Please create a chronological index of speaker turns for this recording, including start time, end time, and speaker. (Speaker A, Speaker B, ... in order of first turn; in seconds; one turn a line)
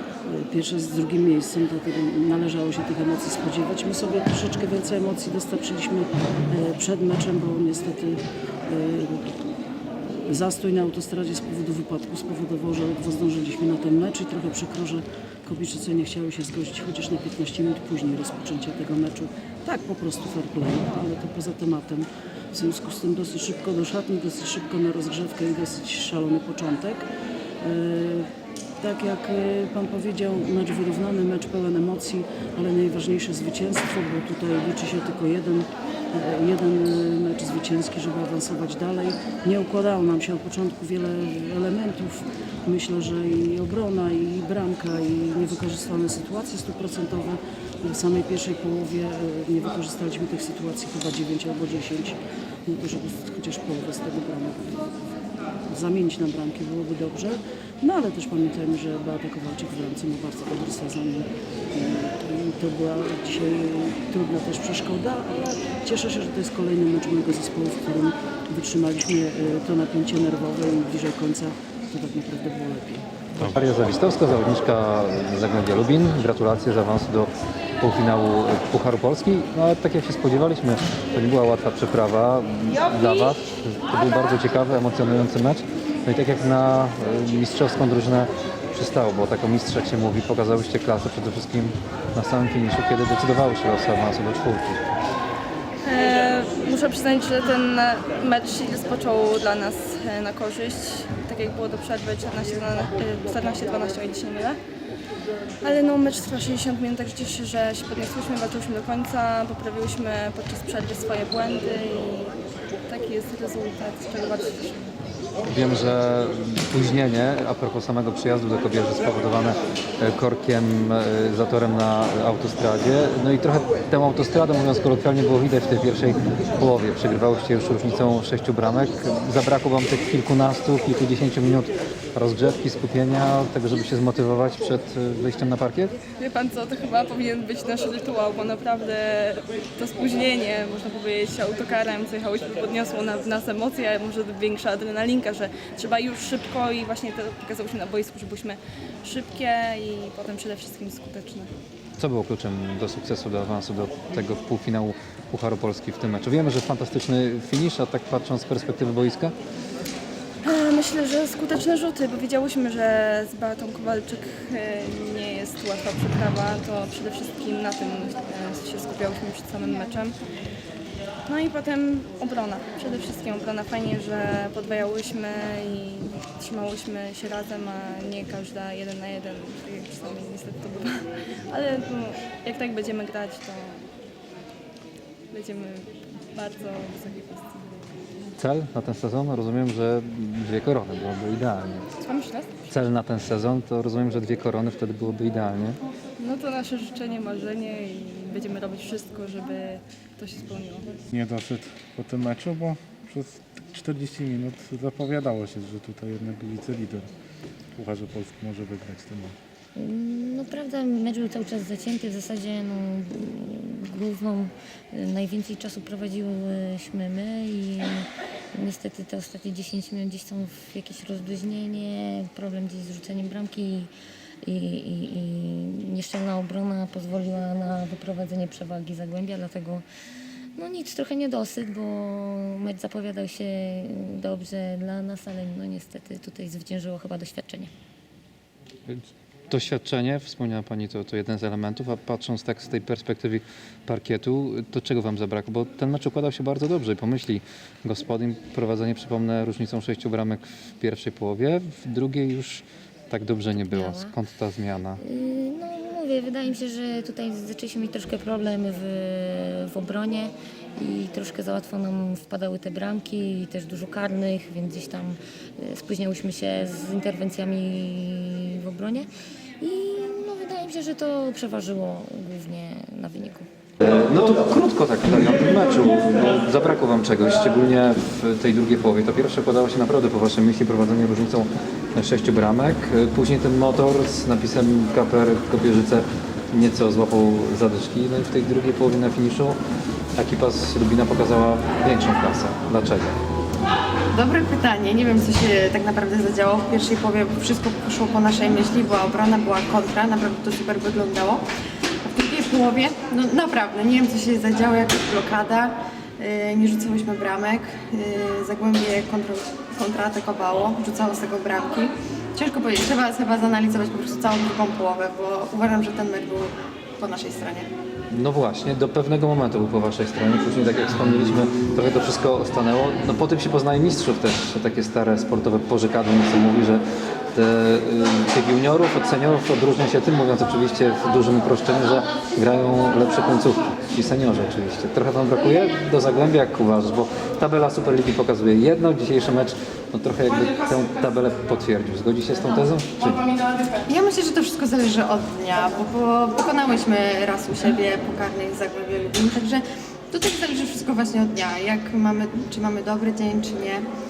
Speaker A: 0.2-9.3
Speaker A: 10.3-27.1
Speaker A: 27.6-54.9
Speaker A: 55.7-73.1
Speaker B: 73.4-94.9
Speaker C: 95.8-104.6
Speaker C: 105.6-112.3
Speaker C: 112.9-115.0
Speaker B: 115.5-136.0
Speaker C: 136.2-151.5
Speaker B: 152.0-159.3
Speaker C: 160.4-170.1
Speaker C: 171.3-183.8
Speaker C: 185.3-187.6
Speaker B: 188.4-191.9
Speaker C: 192.0-192.5
Speaker B: 192.7-195.8
Speaker C: 196.2-200.9
Speaker D: 201.1-207.1
Speaker D: 207.8-209.4
Speaker E: 209.8-223.9
Speaker E: 224.4-229.8
Speaker E: 230.6-237.7
Speaker B: 238.9-255.0
Speaker E: 253.6-254.1
Speaker E: 255.0-269.1
Speaker E: 269.6-273.5
Speaker B: 273.8-289.6
Speaker B: 290.2-293.2
Speaker F: 294.1-301.4
Speaker F: 302.0-317.7
Speaker B: 318.1-343.2
Speaker F: 343.8-353.9